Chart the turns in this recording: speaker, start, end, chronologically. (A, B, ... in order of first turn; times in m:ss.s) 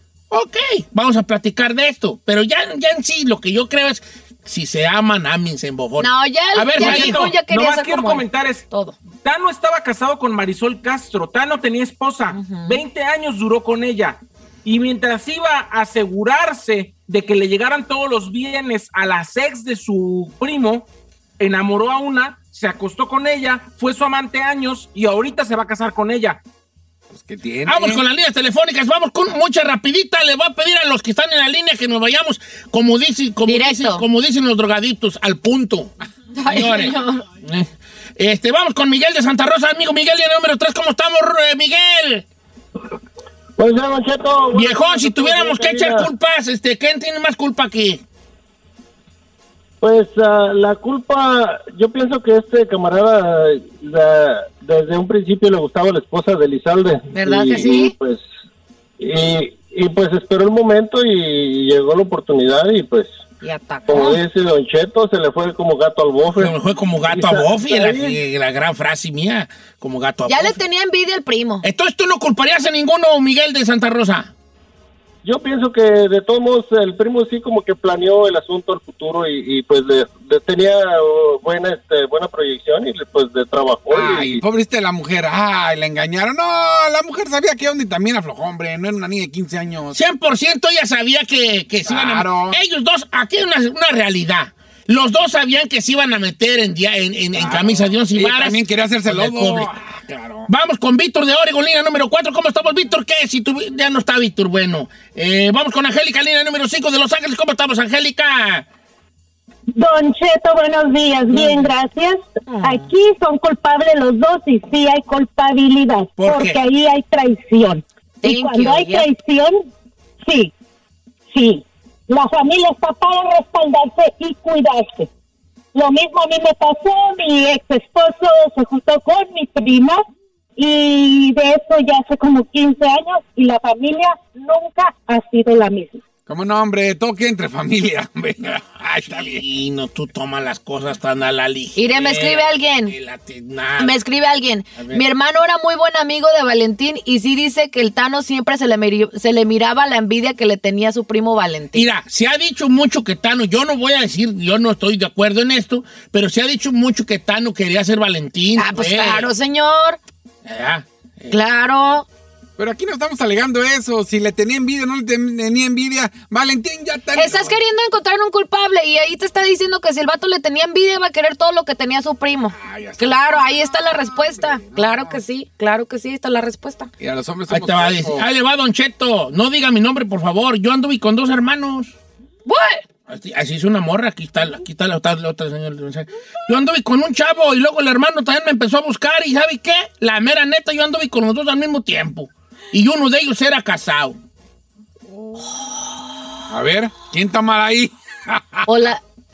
0:00.3-0:07.3 A
0:06.0-0:09.0 B
0:06.8-0:26.4 C
0:12.3-0:12.8 B
0:27.1-0:28.0 D
0:27.6-0:35.9 A
0:33.4-0:34.0 B
0:36.3-0:37.2 B
0:36.4-0:42.2 A
0:43.6-0:46.1 E
0:44.5-0:48.0 A
0:49.8-0:58.2 E
0:57.1-0:57.9 B
0:59.0-1:03.2 E
1:03.4-1:04.2 B
1:03.9-1:08.2 E
1:06.4-1:10.6 A
1:10.3-1:11.7 B
1:11.6-1:14.3 A
1:15.2-1:24.4 E
1:23.9-1:30.0 D
1:29.9-1:39.9 A
1:31.9-1:32.6 D
1:37.4-1:40.5 D
1:40.5-1:48.6 A
1:49.7-1:59.6 F
1:51.4-1:51.6 B
1:52.5-1:52.9 B
1:56.2-1:56.6 A
1:58.2-1:59.0 B
2:00.2-2:00.5 F
2:01.3-2:05.1 F
2:05.7-2:10.0 F
2:10.6-2:16.0 F
2:16.3-2:19.4 D
2:19.2-2:24.0 A
2:21.8-2:22.9 B
2:23.8-2:31.9 B
2:24.8-2:25.0 A
2:31.7-2:39.3 A
2:38.6-2:40.0 B
2:40.4-2:41.4 A
2:41.3-2:42.1 B
2:42.6-2:47.6 D
2:47.1-2:56.9 B
2:52.5-2:55.2 D
2:57.0-2:58.3 D
2:57.5-3:01.9 A
3:02.4-3:02.8 B
3:03.1-3:14.2 A
3:16.5-3:18.7 D
3:18.6-3:19.0 B